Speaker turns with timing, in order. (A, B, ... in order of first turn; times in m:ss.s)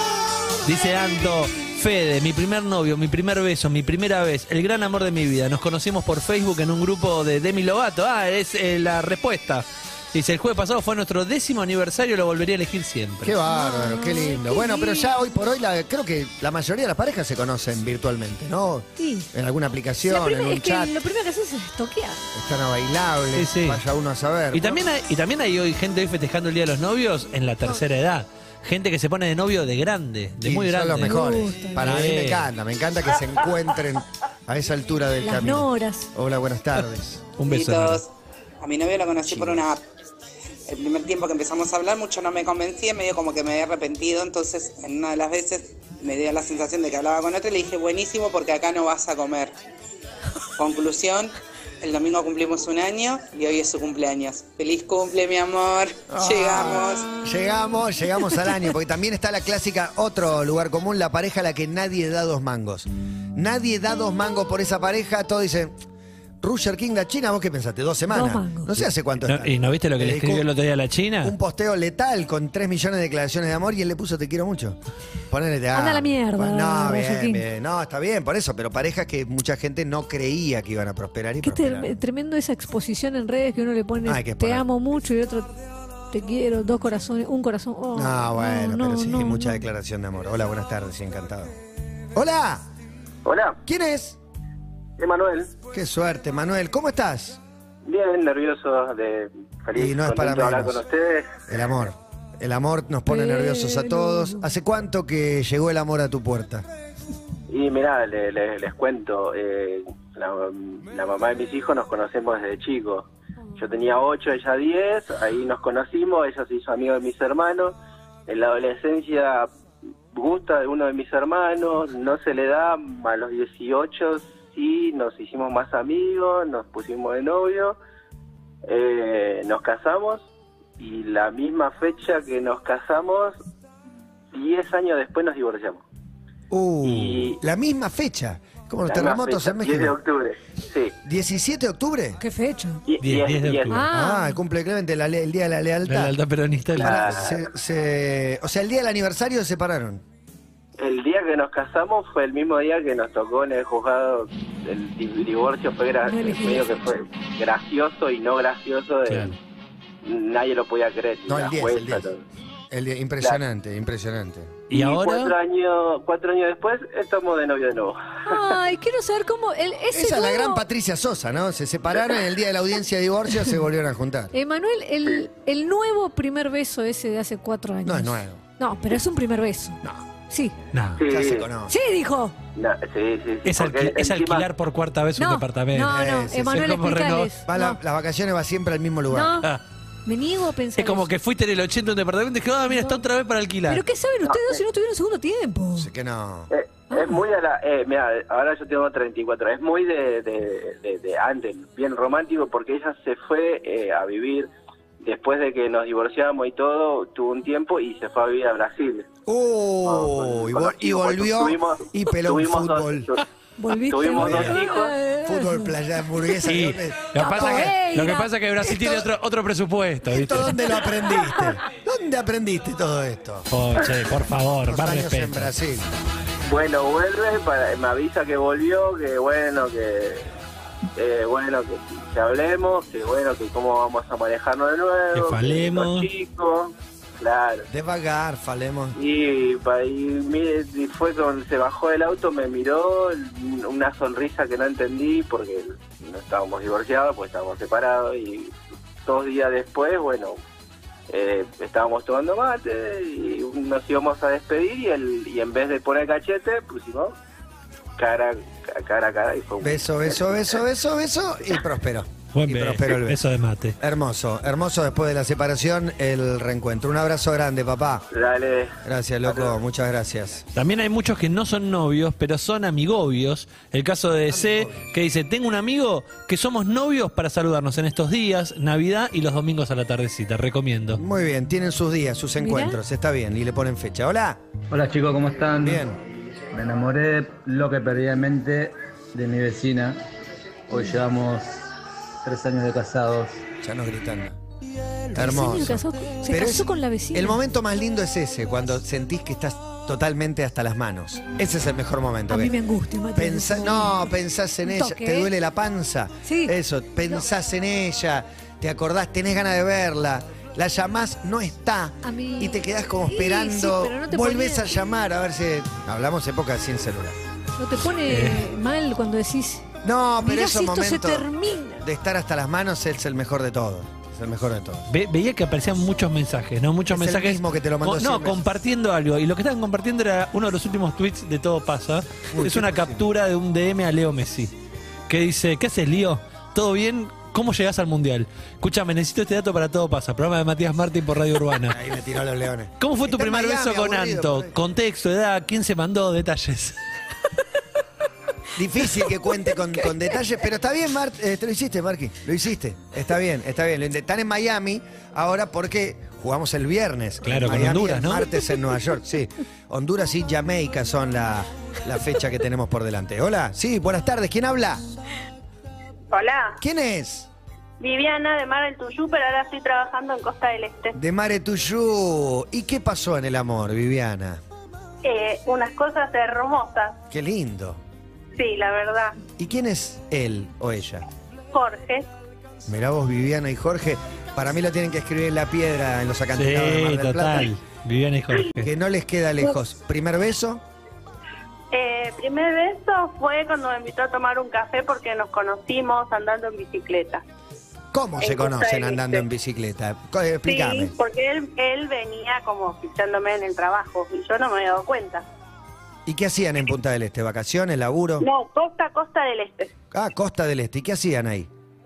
0:00.6-0:13.3 A
0:13.2-0:21.0 B
0:13.4-0:15.1 C
0:19.0-0:19.3 C
0:20.0-0:22.3 C
0:22.3-0:24.8 B
0:23.3-0:23.8 A
0:24.5-0:31.2 A
0:30.4-0:37.2 B
0:31.0-0:31.9 C
0:31.8-0:32.5 A
0:35.2-0:36.1 C
0:37.4-0:38.0 A
0:37.4-0:38.1 D
0:38.6-0:39.8 D
0:39.3-0:39.6 B
0:40.7-0:49.5 D
0:50.6-0:57.1 D
0:56.1-1:05.8 B
1:06.4-1:10.4 B
1:08.1-1:08.8 C
1:09.2-1:11.3 A
1:11.2-1:14.8 B
1:15.3-1:21.9 B
1:15.7-1:17.4 C
1:21.4-1:25.5 C
1:24.0-1:24.6 B
1:26.1-1:29.6 C
1:27.9-1:31.5 B
1:32.1-1:32.6 B
1:33.2-1:33.6 E
1:33.6-1:34.2 B
1:35.0-1:35.5 E
1:35.7-1:37.4 B
1:37.8-1:41.4 E
1:39.8-1:40.8 B
1:41.5-1:46.6 B
1:43.1-1:44.4 C
1:47.5-1:57.7 E
1:58.3-1:59.5 E
2:00.1-2:07.8 E
2:08.7-2:10.2 E
2:10.8-2:13.4 E
2:14.3-2:15.8 E
2:16.5-2:19.9 B
2:16.8-2:17.4 E
2:18.8-2:20.9 E
2:21.0-2:22.2 B
2:22.2-2:22.8 C
2:22.9-2:23.9 E
2:23.0-2:23.8 A
2:23.7-2:24.4 C
2:23.9-2:26.2 B
2:25.8-2:27.1 A
2:26.7-2:30.0 B
2:26.8-2:27.4 E
2:30.8-2:39.3 E
2:36.1-2:36.8 C
2:39.1-2:39.4 A
2:40.0-2:42.2 E
2:41.3-2:42.0 B
2:42.7-2:44.6 B
2:44.7-2:45.3 A
2:44.7-2:48.4 E
2:48.2-2:50.6 C
2:49.9-2:54.3 B
2:54.3-3:00.5 C
2:57.8-2:58.4 B
3:00.7-3:01.0 A
3:01.0-3:01.4 E
3:01.0-3:01.7 B
3:01.7-3:02.3 C
3:02.6-3:04.5 E
3:03.4-3:06.0 A
3:05.2-3:07.8 C
3:05.9-3:06.7 B
3:06.5-3:07.3 A
3:07.5-3:09.4 B
3:09.1-3:09.5 C
3:10.0-3:11.1 C
3:10.8-3:13.8 A
3:12.7-3:13.0 C
3:13.7-3:15.9 C
3:14.2-3:14.6 E
3:15.7-3:16.5 B
3:16.5-3:24.5 E
3:16.9-3:17.2 C
3:25.0-3:29.0 E
3:29.2-3:33.1 B
3:29.8-3:33.2 E
3:33.6-3:35.7 C
3:33.9-3:34.9 E
3:35.2-3:37.7 B
3:36.5-3:40.6 A
3:37.2-3:39.0 C
3:40.1-3:43.5 B
3:41.0-3:41.4 C
3:43.5-3:45.5 A
3:44.6-3:45.9 B
3:46.4-3:50.3 E
3:51.0-3:57.6 E
3:55.1-3:56.1 A
3:57.7-3:59.0 B
3:58.9-4:10.4 E
4:11.1-4:17.1 E
4:18.0-4:20.5 E
4:19.6-4:23.2 B
4:22.3-4:23.8 A
4:23.8-4:28.1 B
4:28.1-4:28.7 E
4:28.8-4:30.4 B
4:29.2-4:29.5 E
4:30.5-4:41.0 A
4:34.3-4:34.8 B
4:40.9-4:44.4 B
4:42.4-4:42.8 C
4:44.7-4:45.8 F
4:45.6-4:46.0 B
4:46.5-4:50.0 F
4:50.7-4:51.6 F
4:52.2-4:53.4 F
4:53.6-4:54.4 B
4:55.1-4:57.4 C
4:55.1-5:02.5 B
5:02.3-5:04.1 C
5:03.1-5:17.2 B
5:04.6-5:05.3 C
5:06.2-5:06.5 C
5:12.0-5:14.8 C
5:17.6-5:19.6 C
5:18.1-5:18.5 A
5:19.8-5:21.3 B
5:20.2-5:21.9 C
5:21.8-5:24.8 B
5:24.9-5:34.5 A
5:26.9-5:28.4 B
5:32.3-5:33.1 B
5:35.1-5:41.8 A
5:41.7-5:44.5 B
5:42.8-5:46.8 A
5:48.5-6:04.8 B
5:57.2-5:58.3 A
6:06.1-6:06.6 G
6:06.6-6:07.3 B
6:07.8-6:10.9 G
6:10.9-6:14.4 B
6:15.0-6:17.0 G
6:17.1-6:17.8 B
6:18.4-6:19.2 G
6:19.4-6:21.0 B
6:21.5-6:22.1 G
6:22.7-6:27.5 B
6:26.4-6:28.7 A
6:28.6-6:30.6 B
6:31.7-6:37.2 G
6:37.9-6:40.9 B
6:38.2-6:39.2 G
6:40.5-6:45.2 G
6:46.0-6:48.3 B
6:48.2-6:49.7 G
6:49.9-6:51.5 B